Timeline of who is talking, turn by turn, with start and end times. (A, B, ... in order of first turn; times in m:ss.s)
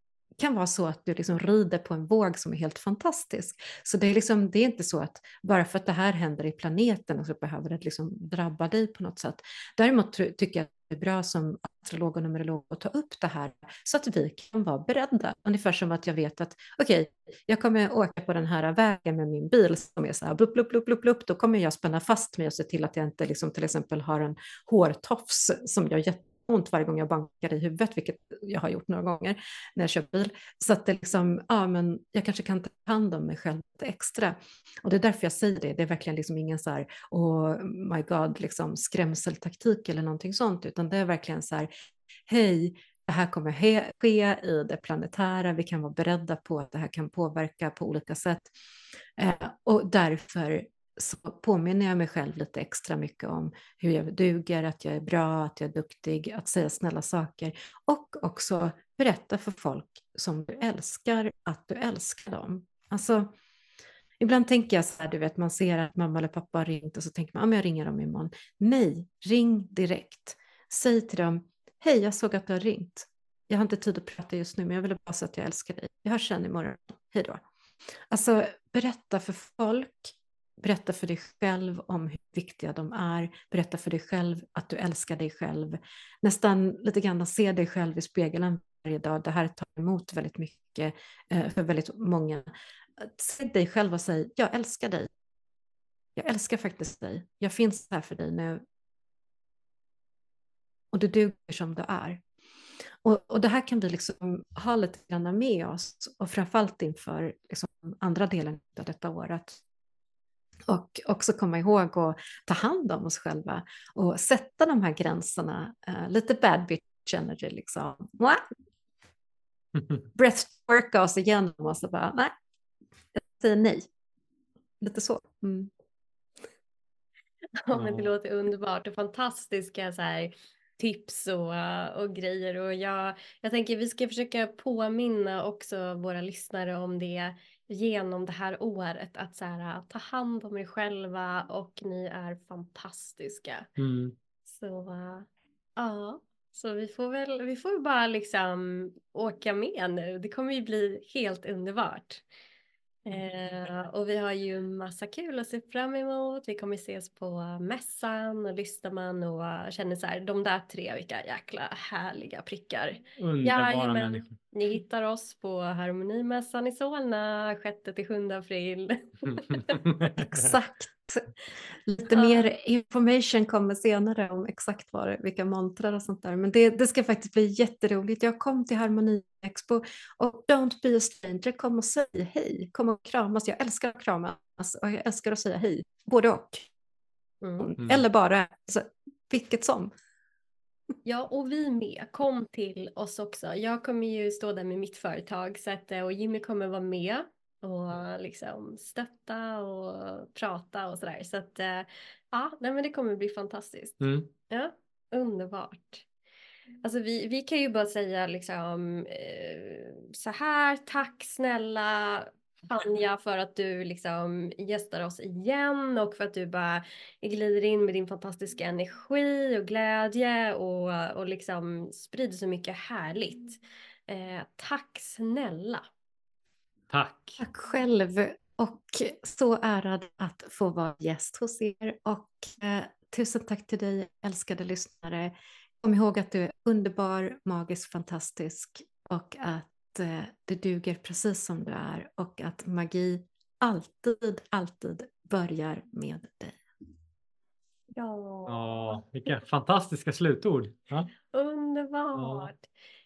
0:00.4-0:41.7 A
0:42.3-0:48.5 A
0:49.2-1:03.3 A
1:04.2-1:17.4 A
1:18.1-1:32.4 A
1:33.0-1:35.1 A
1:36.2-1:38.6 A
1:40.9-1:42.2 A
1:43.0-1:49.6 A
1:50.7-1:58.4 A
2:00.2-2:02.3 A
2:03.2-2:03.9 A
2:04.8-2:05.7 A
2:07.6-2:23.7 B
2:07.7-2:08.1 C
2:23.8-2:24.2 C
2:24.5-2:32.2 B
2:33.1-2:49.8 B
2:43.2-2:44.3 C
2:49.3-2:50.6 C
2:50.2-2:51.3 A
2:51.8-3:06.7 A
2:52.1-2:52.4 B
3:07.4-3:07.7 B
3:07.6-3:09.9 A
3:11.0-3:26.0 B
3:24.0-3:24.3 C
3:26.8-3:45.8 B
3:46.9-3:47.4 C
3:47.4-4:06.6 A
4:08.0-4:08.7 B
4:08.5-4:11.1 C
4:11.3-4:12.7 B
4:12.2-4:12.5 C